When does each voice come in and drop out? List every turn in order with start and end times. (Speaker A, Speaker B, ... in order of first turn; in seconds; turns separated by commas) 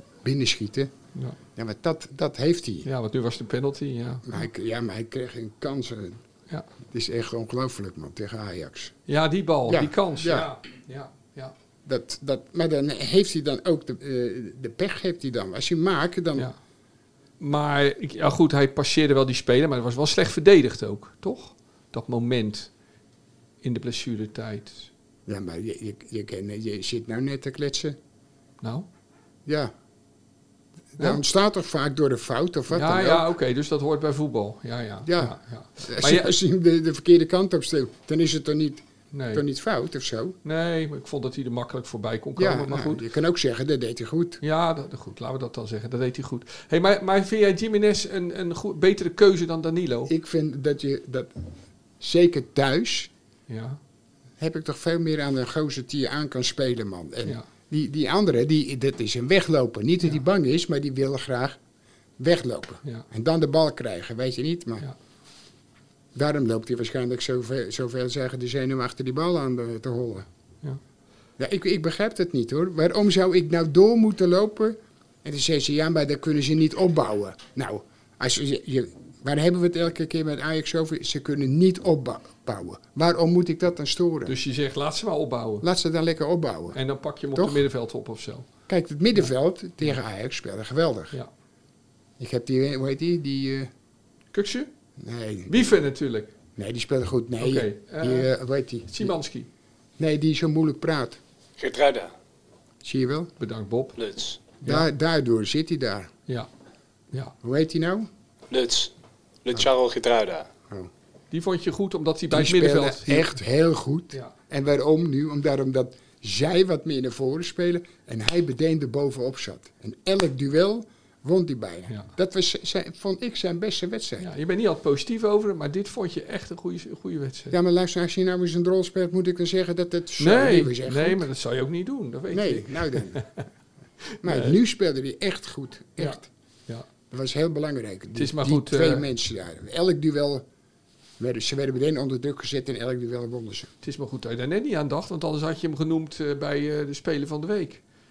Speaker A: 0.2-0.9, Speaker A: 1.6-2.9, Speaker B: 2.8-4.4, Speaker A: 4.3-6.2, Speaker A: 6.8-8.9, Speaker B: 9.1-11.5, Speaker A: 9.7-10.5, Speaker A: 11.8-16.5, Speaker B: 17.4-22.7, Speaker B: 23.6-24.9, Speaker A: 25.2-28.0, Speaker B: 28.6-28.9, Speaker A: 29.4-29.7, Speaker A: 30.9-33.3, Speaker B: 31.0-31.2, Speaker B: 32.7-36.4, Speaker A: 35.0-40.4, Speaker B: 39.1-39.4, Speaker B: 40.4-43.0, Speaker A: 42.4-44.4, Speaker B: 44.4-50.1, Speaker A: 50.1-51.3, Speaker A: 52.0-53.1, Speaker B: 53.5-53.8, Speaker A: 54.4-61.6, Speaker A: 62.2-64.9, Speaker A: 66.1-70.3, Speaker A: 71.4-84.3, Speaker B: 84.2-85.7, Speaker A: 85.6-86.8, Speaker B: 86.7-88.5, Speaker A: 87.3-87.6, Speaker A: 88.7-91.2, Speaker A: 92.2-93.7, Speaker B: 94.3-94.7, Speaker A: 95.0-95.7, Speaker B: 95.5-96.3, Speaker A: 96.5-99.1, Speaker B: 97.4-98.3, Speaker B: 98.9-99.5, Speaker A: 100.0-101.2, Speaker C: 101.6-102.1, Speaker A: 102.8-103.3, Speaker B: 103.4-104.0, Speaker C: 104.0-104.3, Speaker A: 104.6-106.1, Speaker A: 107.4-108.1, Speaker C: 108.5-108.9, Speaker C: 109.4-110.5, Speaker B: 111.3-113.3, Speaker A: 112.3-124.3, Speaker B: 124.2-127.5, Speaker A: 127.5-131.3, Speaker B: 130.2-133.4, Speaker A: 132.3-133.2, Speaker B: 134.1-134.6, Speaker A: 134.2-136.3, Speaker B: 136.0-136.9, Speaker A: 137.1-140.4, Speaker B: 138.1-139.1, Speaker A: 141.2-143.7, Speaker B: 143.8-147.8